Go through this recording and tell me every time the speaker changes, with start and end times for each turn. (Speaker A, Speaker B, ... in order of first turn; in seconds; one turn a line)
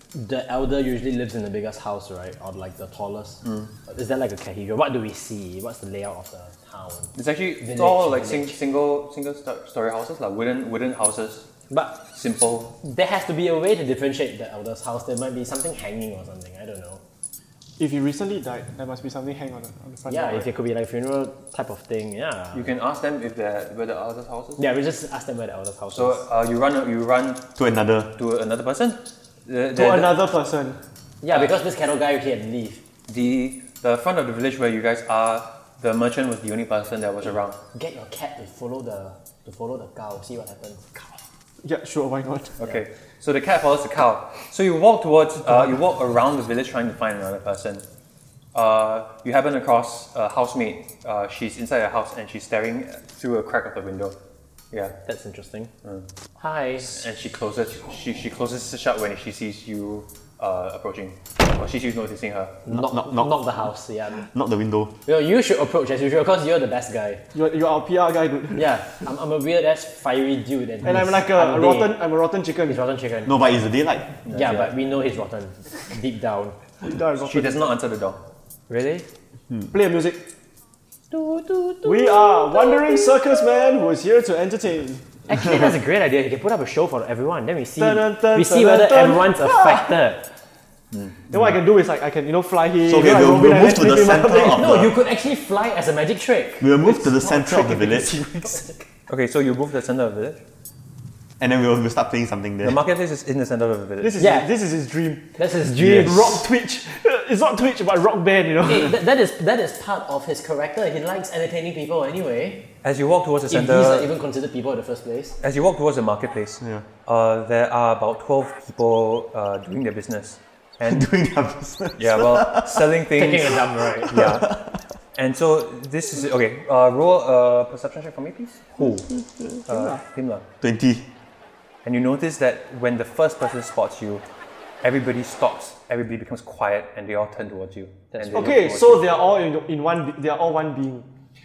Speaker A: 0.1-8.6
Speaker B: 3.4-3.7
Speaker B: 7.1-11.5
Speaker A: 11.7-12.0
Speaker B: 12.1-12.7
Speaker A: 12.8-17.0
Speaker C: 17.8-20.5
Speaker A: 20.1-22.7
Speaker B: 22.5-24.6
Speaker A: 24.6-26.2
Speaker B: 25.9-27.4
Speaker D: 27.6-28.1
Speaker B: 28.1-30.2
Speaker C: 29.7-30.8
Speaker A: 31.2-32.8
Speaker B: 33.1-37.6
Speaker A: 37.7-40.9
Speaker C: 41.6-42.6
Speaker B: 42.6-47.8
Speaker B: 48.5-54.1
Speaker A: 55.0-55.7
Speaker A: 56.4-56.9
Speaker B: 56.8-62.5
Speaker A: 62.6-64.2
Speaker D: 62.7-63.5
Speaker D: 64.2-64.9
Speaker A: 65.1-67.2
Speaker C: 67.3-68.7
Speaker A: 68.5-72.0
Speaker C: 70.8-72.8
Speaker A: 72.7-73.4
Speaker D: 73.2-74.2
Speaker B: 74.2-74.7
Speaker A: 74.3-76.6
Speaker C: 76.8-77.7
Speaker B: 77.2-78.2
Speaker A: 78.7-79.1
Speaker C: 79.7-80.2
Speaker A: 81.1-83.1
Speaker C: 81.8-85.1
Speaker A: 85.3-90.2
Speaker C: 87.8-89.9
Speaker B: 90.9-91.2
Speaker C: 91.3-94.6
Speaker D: 92.8-95.0
Speaker A: 94.5-96.8
Speaker D: 96.6-98.2
Speaker C: 96.8-98.7
Speaker B: 99.1-100.4
Speaker D: 101.4-102.8
Speaker B: 102.6-104.2
Speaker C: 104.0-109.0
Speaker A: 104.2-104.5
Speaker A: 105.4-106.4
Speaker D: 105.8-106.4
Speaker A: 108.6-112.7
Speaker B: 112.8-114.1
Speaker A: 113.5-115.4
Speaker B: 115.4-121.1
Speaker D: 120.8-122.9
Speaker B: 122.0-124.5
Speaker A: 123.2-124.2
Speaker D: 124.1-124.8
Speaker B: 125.1-129.1
Speaker B: 129.7-130.4
Speaker C: 129.7-130.0
Speaker D: 130.6-131.1
Speaker B: 131.8-134.2
Speaker B: 134.8-139.1
Speaker A: 138.2-138.4
Speaker C: 138.3-141.1